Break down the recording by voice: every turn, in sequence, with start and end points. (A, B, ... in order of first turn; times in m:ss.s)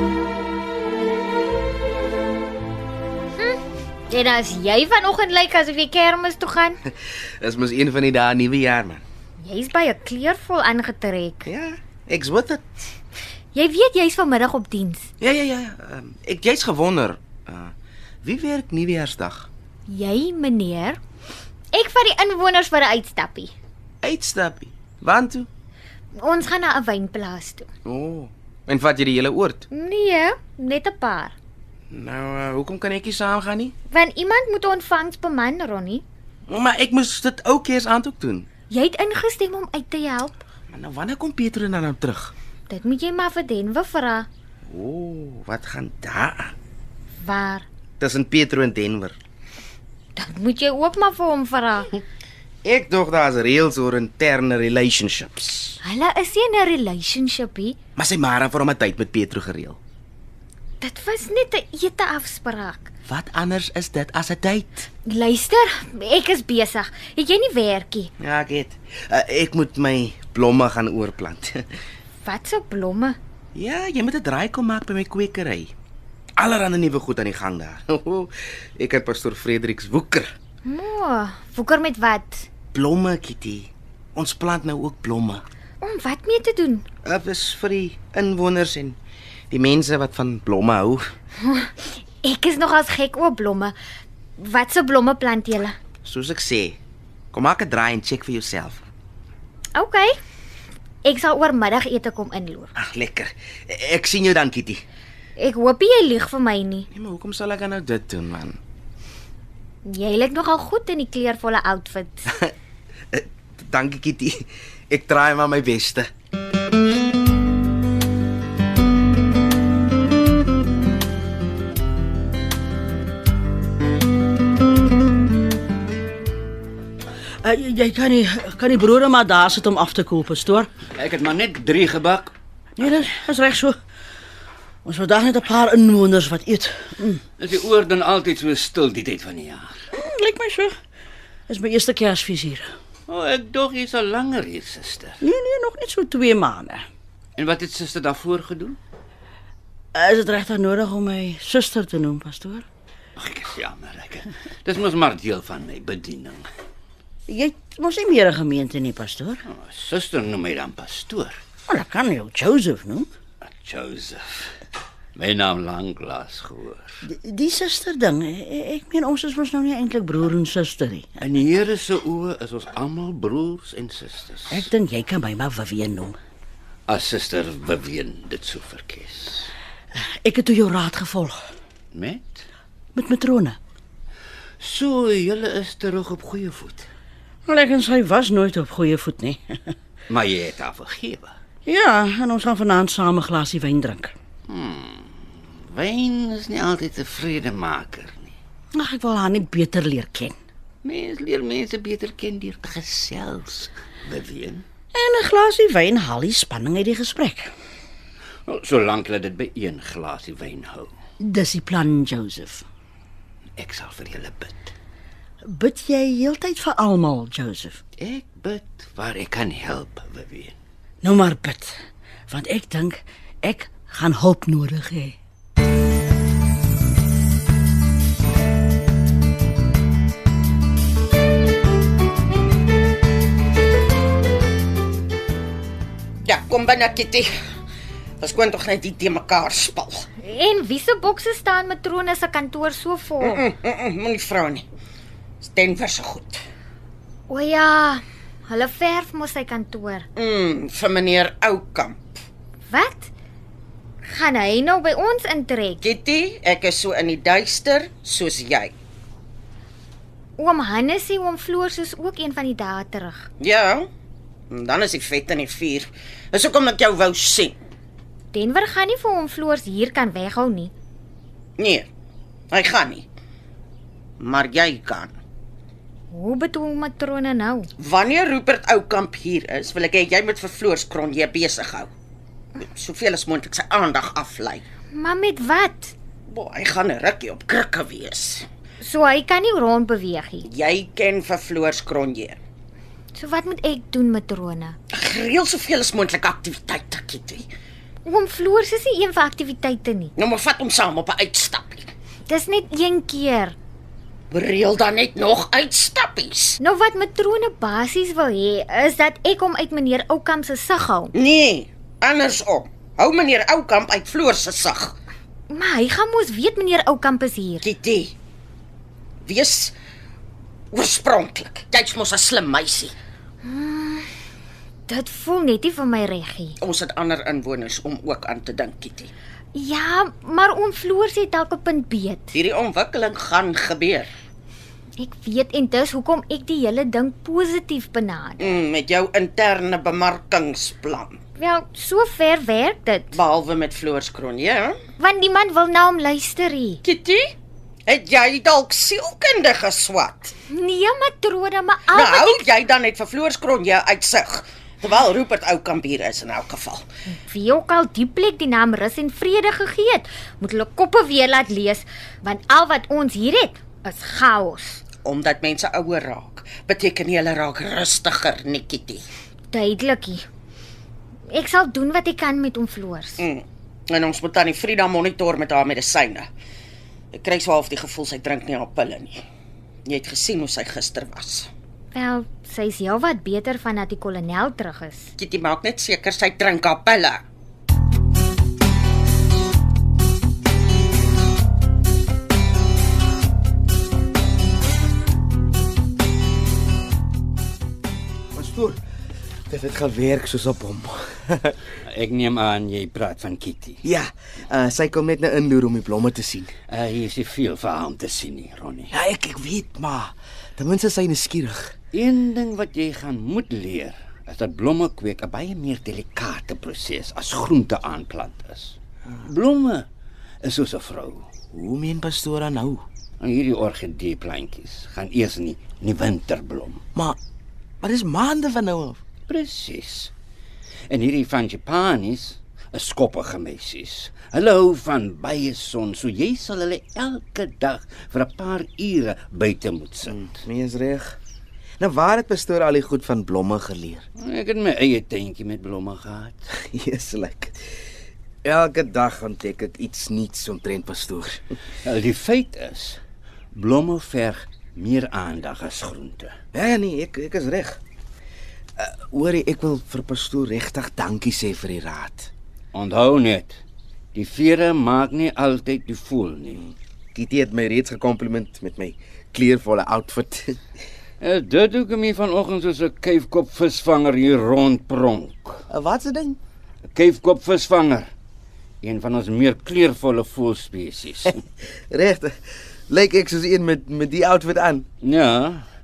0:03.4-0:06.8 A
0:07.4-0:09.0 B
0:09.4-0:11.5 A
0:11.4-0:12.6 B
0:13.5-0:15.1 A
0:15.2-0:17.7 B
0:18.2-0:19.5 B
0:19.9-0:21.0 A
0:21.7-0:23.5 A
0:24.0-0:25.5 B
0:26.1-0:27.7 A
0:27.8-0:29.7 B
0:29.7-0:31.3 A
0:31.9-0:33.7 B
0:33.9-0:36.0 A
0:36.5-0:38.5 B
0:38.7-0:40.4 A
0:40.7-0:42.3 B
0:42.7-0:44.3 A
0:44.7-0:46.5 B
0:47.2-0:47.6 A
0:48.0-0:49.2 B
0:50.1-0:51.9 A
0:52.6-0:55.8 B
0:55.8-0:57.8 A
0:58.0-0:59.8 B
1:00.8-1:02.9 A
1:03.0-1:04.9 B
1:05.0-1:08.1 A
1:08.2-1:11.6 B
1:12.2-1:13.2 A
1:13.5-1:15.7 B
1:16.4-1:20.3 B
1:20.6-1:22.5 A
1:22.7-1:25.4 B
1:25.8-1:26.8 A
1:27.0-1:29.0 B
1:29.5-1:31.0 B
1:31.4-1:33.7 A
1:34.4-1:35.8 A
1:36.0-1:36.8 B
1:37.3-1:38.8 B
1:39.7-1:40.1 A
1:41.0-1:42.7 A
1:42.8-1:44.8 B
1:45.4-1:46.9 A
1:46.9-1:48.6 B
1:49.8-1:52.3 A
1:53.1-1:56.1 B
2:07.4-2:10.7 C
2:10.8-2:13.1 D
2:12.8-2:13.8 C
2:14.8-2:17.2 C
2:17.4-2:19.8 D
2:20.0-2:20.7 C
2:21.5-2:22.7 C
2:23.1-2:25.2 D
2:25.2-2:26.8 C
2:27.4-2:28.8 D
2:29.9-2:32.6 C
2:33.2-2:36.4 D
2:37.3-2:39.4 C
2:39.4-2:41.4 D
2:41.7-2:43.1 C
2:43.4-2:44.5 D
2:45.1-2:47.0 D
2:47.0-2:51.1 C
2:51.2-2:54.7 D
2:54.5-2:56.2 C
2:56.9-2:59.5 D
3:00.0-3:01.4 C
3:01.9-3:02.4 D
3:02.9-3:03.6 C
3:04.6-3:06.9 D
3:07.5-3:09.7 C
3:10.1-3:11.3 D
3:11.6-3:14.1 C
3:14.5-3:18.3 D
3:18.7-3:20.4 C
3:20.8-3:24.6 D
3:24.9-3:27.5 C
3:28.4-3:30.9 D
3:31.2-3:32.6 C
3:33.6-3:34.7 D
3:35.4-3:37.8 C
3:38.0-3:40.5 D
3:41.0-3:41.7 C
3:42.3-3:45.1 C
3:56.2-3:57.3 E
3:58.2-4:00.1 E
4:00.2-4:03.4 A
4:03.2-4:04.6 E
4:05.4-4:06.4 E
4:07.3-4:10.1 A
4:10.2-4:12.0 E
4:12.7-4:13.1 A
4:14.0-4:15.8 A
4:15.8-4:18.7 E
4:20.4-4:23.3 A
4:23.4-4:23.8 E
4:24.5-4:27.6 E
4:28.3-4:30.7 A
4:31.6-4:31.9 E
4:32.5-4:33.0 E
4:34.2-4:35.1 E
4:36.1-4:37.7 A
4:37.8-4:41.9 E
4:42.6-4:44.6 E
4:44.9-4:45.9 A
4:46.3-4:48.4 E
4:48.8-4:50.5 A
4:50.4-4:52.4 E
4:53.1-4:54.8 A
4:54.9-4:57.5 E
4:58.0-5:00.1 A
5:00.2-5:01.9 E
5:02.3-5:03.6 A
5:04.3-5:06.6 E
5:06.6-5:11.1 A
5:11.1-5:15.0 E
5:15.5-5:17.6 A
5:17.6-5:18.1 E
5:19.2-5:19.7 E
5:20.7-5:22.9 E
5:23.4-5:24.1 A
5:24.9-5:26.6 A
5:26.6-5:29.1 E
5:29.5-5:32.3 A
5:32.3-5:34.1 E
5:35.0-5:38.5 A
5:38.4-5:41.2 E
5:41.4-5:43.1 A
5:43.1-5:44.8 E
5:45.0-5:46.8 A
5:46.8-5:47.3 E
5:47.9-5:50.3 E
5:50.5-5:52.4 A
5:51.9-5:56.8 E
5:57.1-6:04.8 A
6:05.0-6:09.0 E
6:09.5-6:10.2 A
6:11.3-6:13.2 A
6:13.2-6:16.3 E
6:17.1-6:19.2 E
6:19.8-6:21.5 E
6:21.9-6:25.1 A
6:25.2-6:27.2 E
6:38.3-6:38.8 B
6:39.5-6:41.6 B
6:41.8-6:43.8 D
6:43.8-6:46.5 B
6:46.7-6:48.9 D
6:48.9-6:51.7 B
6:51.9-6:59.9 D
7:00.4-7:01.3 D
7:01.5-7:02.8 B
7:03.2-7:06.8 D
7:07.8-7:09.0 B
7:09.3-7:10.1 D
7:10.9-7:20.4 D
7:20.1-7:21.2 B
7:21.8-7:24.0 B
7:24.2-7:26.5 D
7:26.5-7:27.6 B
7:28.4-7:31.4 B
7:31.8-7:33.0 D
7:33.5-7:36.3 D
7:36.5-7:37.8 B
7:38.8-7:42.3 B
7:42.7-7:43.6 D
7:44.1-7:46.7 D
7:47.1-7:50.6 B
7:51.2-7:55.6 D
7:55.7-7:56.4 B
7:56.9-7:58.1 D
7:58.8-8:01.4 D
8:01.9-8:02.3 B
8:02.9-8:04.8 B
8:05.0-8:05.6 D